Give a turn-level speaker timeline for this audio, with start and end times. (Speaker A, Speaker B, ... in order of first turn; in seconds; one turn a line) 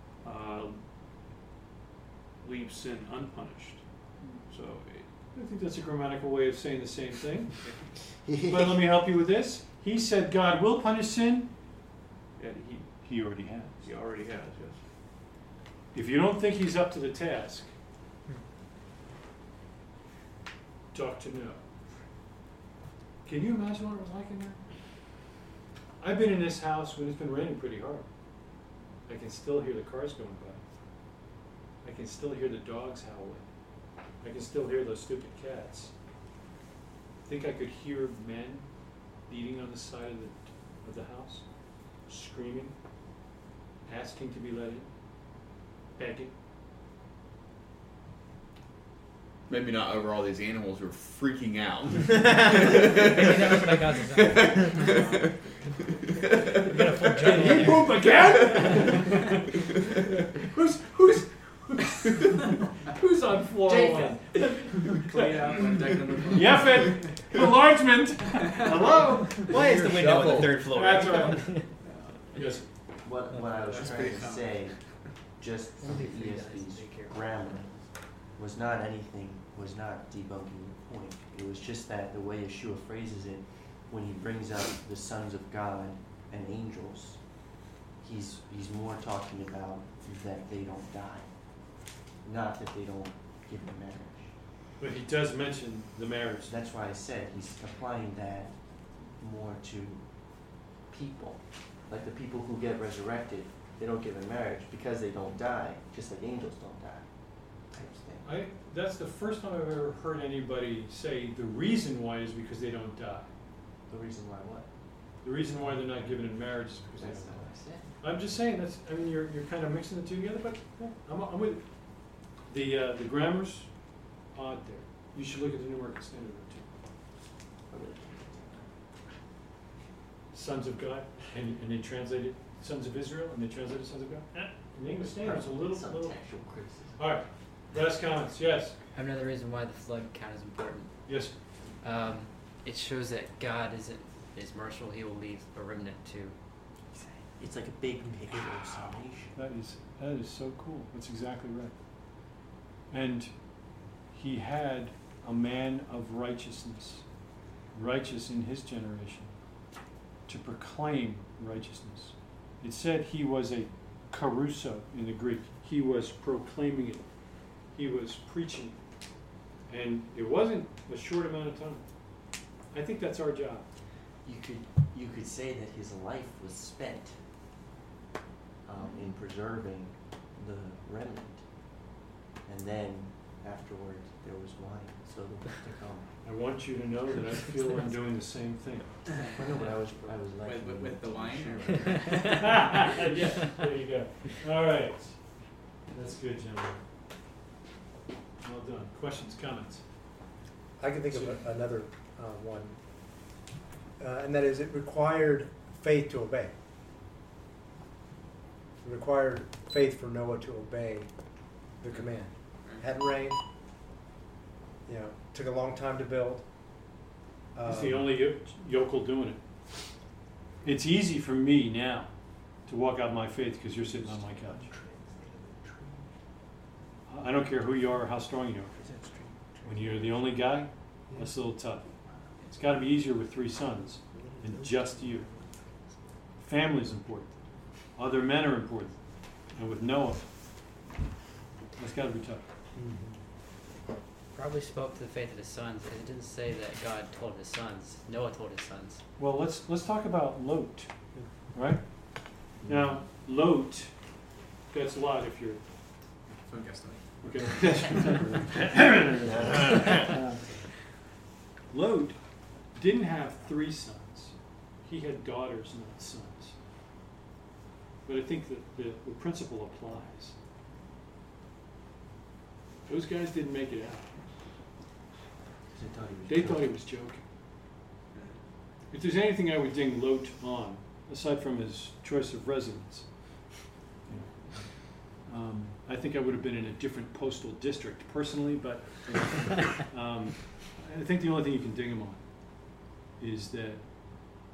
Speaker A: 0.2-0.9
Speaker A: 2.4-5.1
Speaker B: 5.3-7.7
Speaker C: 8.1-8.8
Speaker B: 8.2-11.5
Speaker A: 12.4-13.3
Speaker B: 13.1-13.8
Speaker A: 13.8-14.8
Speaker B: 15.9-17.7
Speaker B: 20.9-21.7
Speaker B: 23.2-24.7
Speaker B: 26.0-28.1
Speaker B: 29.1-30.6
Speaker B: 31.8-33.5
Speaker B: 34.2-35.9
Speaker B: 37.3-42.8
Speaker B: 43.9-45.3
Speaker B: 46.0-46.3
Speaker D: 49.5-55.5
Speaker E: 53.2-55.0
Speaker B: 56.6-65.6
Speaker E: 57.1-58.1
Speaker D: 58.0-58.3
Speaker C: 63.7-64.5
Speaker F: 65.0-67.1
Speaker B: 66.3-69.5
Speaker G: 69.5-71.7
Speaker B: 70.5-71.7
Speaker F: 71.8-72.3
Speaker B: 72.3-72.7
Speaker C: 73.0-94.4
Speaker F: 73.5-75.2
Speaker A: 73.5-74.2
Speaker E: 75.8-78.0
Speaker B: 94.8-96.5
Speaker C: 96.5-108.3
Speaker B: 108.2-113.3
Speaker C: 113.9-115.0
Speaker B: 115.2-126.7
Speaker C: 116.9-118.0
Speaker C: 127.7-128.8
Speaker B: 130.3-138.8
Speaker C: 134.9-137.2
Speaker E: 138.9-146.4
Speaker B: 141.1-141.4
Speaker C: 146.9-149.3
Speaker B: 148.3-151.7
Speaker B: 152.9-157.2
Speaker B: 157.7-159.4
Speaker B: 160.3-167.1
Speaker B: 167.7-168.8
Speaker B: 169.7-173.7
Speaker C: 174.2-177.2
Speaker C: 178.6-181.9
Speaker C: 182.4-186.2
Speaker B: 186.2-189.2
Speaker C: 189.3-192.9
Speaker F: 190.4-192.9
Speaker B: 192.4-196.8
Speaker B: 198.4-199.8
Speaker H: 200.8-202.8
Speaker B: 201.1-201.4
Speaker H: 204.0-206.5
Speaker H: 208.8-213.4
Speaker H: 214.9-216.5
Speaker H: 217.5-218.1
Speaker B: 217.7-219.9
Speaker B: 220.6-224.7
Speaker C: 223.7-226.1
Speaker B: 227.1-228.7
Speaker C: 228.7-230.2
Speaker B: 229.6-235.3
Speaker C: 232.1-232.5
Speaker C: 233.7-236.2
Speaker B: 236.4-240.5
Speaker B: 241.8-242.5
Speaker E: 244.2-249.0
Speaker B: 249.2-256.1
Speaker F: 256.4-258.3
Speaker B: 257.2-260.8
Speaker C: 259.2-260.1
Speaker B: 261.7-266.6
Speaker B: 268.1-270.4
Speaker B: 272.9-274.4
Speaker C: 275.7-276.7
Speaker B: 276.3-277.3
Speaker F: 278.1-278.5
Speaker B: 278.9-283.5
Speaker B: 284.1-293.9